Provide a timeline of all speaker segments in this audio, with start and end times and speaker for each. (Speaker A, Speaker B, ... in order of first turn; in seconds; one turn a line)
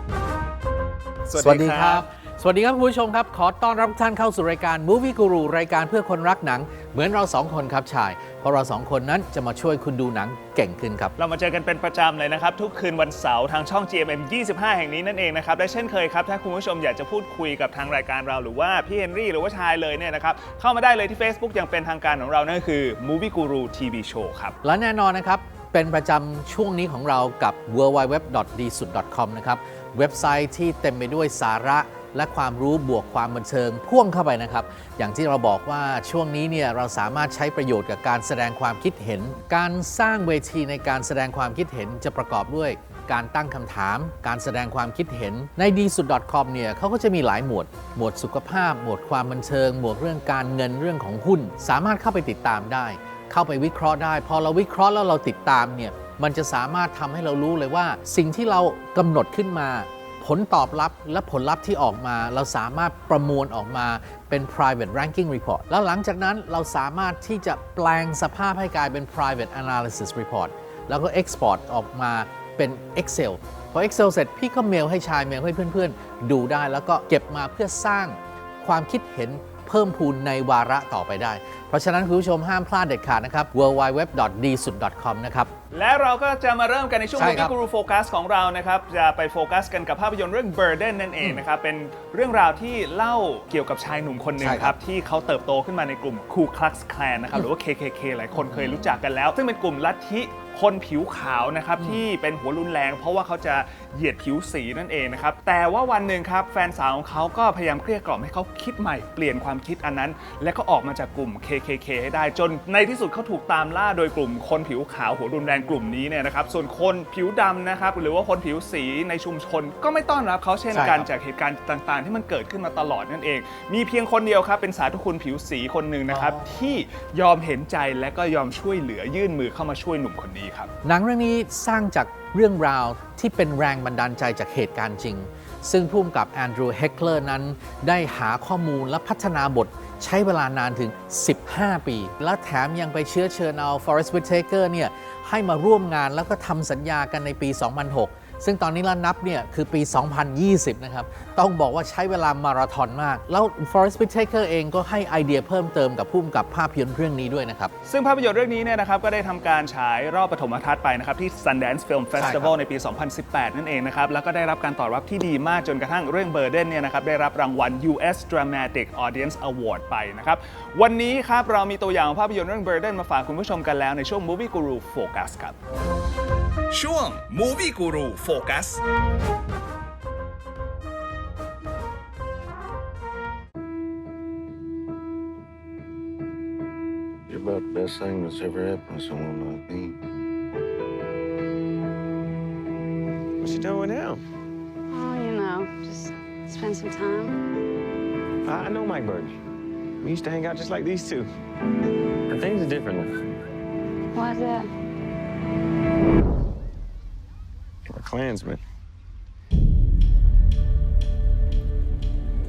Speaker A: 1.3-2.1
Speaker B: 1.4-11.1
Speaker A: 11.2-24.6
Speaker B: 24.6-85.5
Speaker A: 85.7-130.7
Speaker B: 87.2-87.5
Speaker B: 94.4-94.8
Speaker B: 98.4-98.9
Speaker B: 120.7-121.1
Speaker B: 126.1-126.4
Speaker B: 130.8-157.7
Speaker A: 157.9-175.6
Speaker B: 162.2-162.6
Speaker A: 176.7-178.8
Speaker C: 187.3-190.0
Speaker D: 193.4-194.2
Speaker E: 194.9-197.4
Speaker D: 198.4-199.4
Speaker D: 200.0-201.3
Speaker D: 202.3-203.2
Speaker E: 204.1-204.7
Speaker D: 207.9-208.6